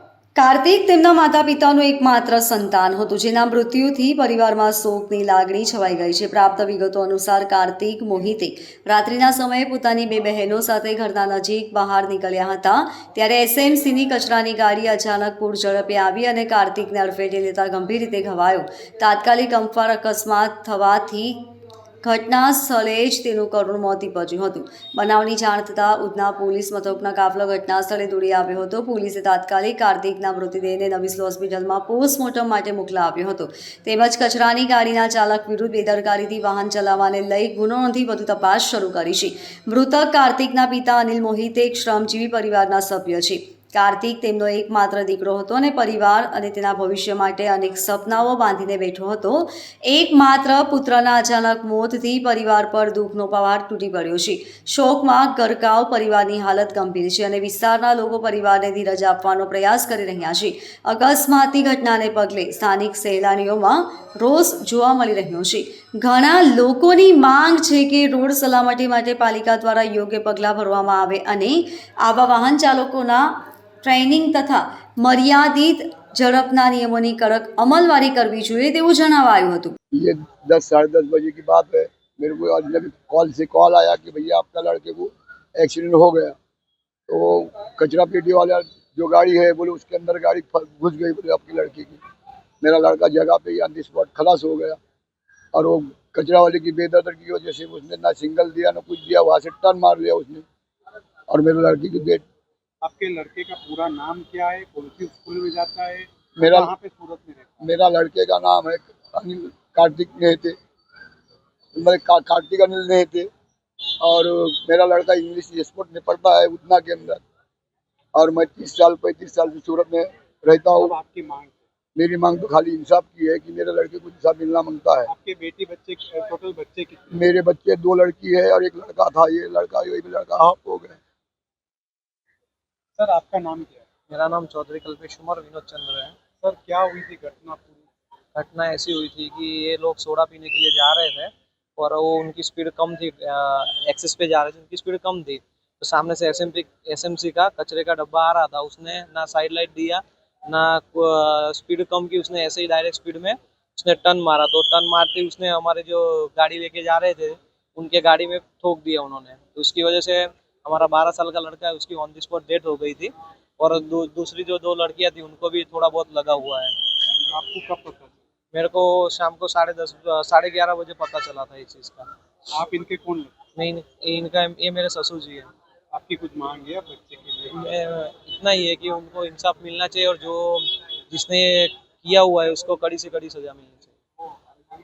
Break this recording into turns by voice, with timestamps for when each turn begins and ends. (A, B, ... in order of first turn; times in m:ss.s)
0:00.4-0:21.4 A
0:22.0-1:19.8 A
1:19.9-1:26.4 B
1:27.1-1:32.0 B
1:32.6-1:34.8 B
1:35.5-1:40.4 B
1:41.3-1:42.2 B
1:42.8-1:47.5 C
1:46.4-1:46.7 B
1:47.6-1:50.6 B
1:51.8-1:53.3 B
1:54.0-1:57.2 B
1:58.2-2:00.9 B
2:00.8-2:01.6 C
2:02.0-2:05.1 B
2:05.1-2:07.3 C
2:07.1-2:11.0 B
2:13.0-2:13.9 C
2:14.1-2:16.2 D
2:16.4-2:17.9 C
2:18.4-2:46.7 D
2:47.3-2:48.1 C
2:48.5-2:52.1 D
2:52.5-2:53.3 C
2:53.6-2:55.5 D
2:55.9-2:57.6 C
2:57.5-3:04.0 D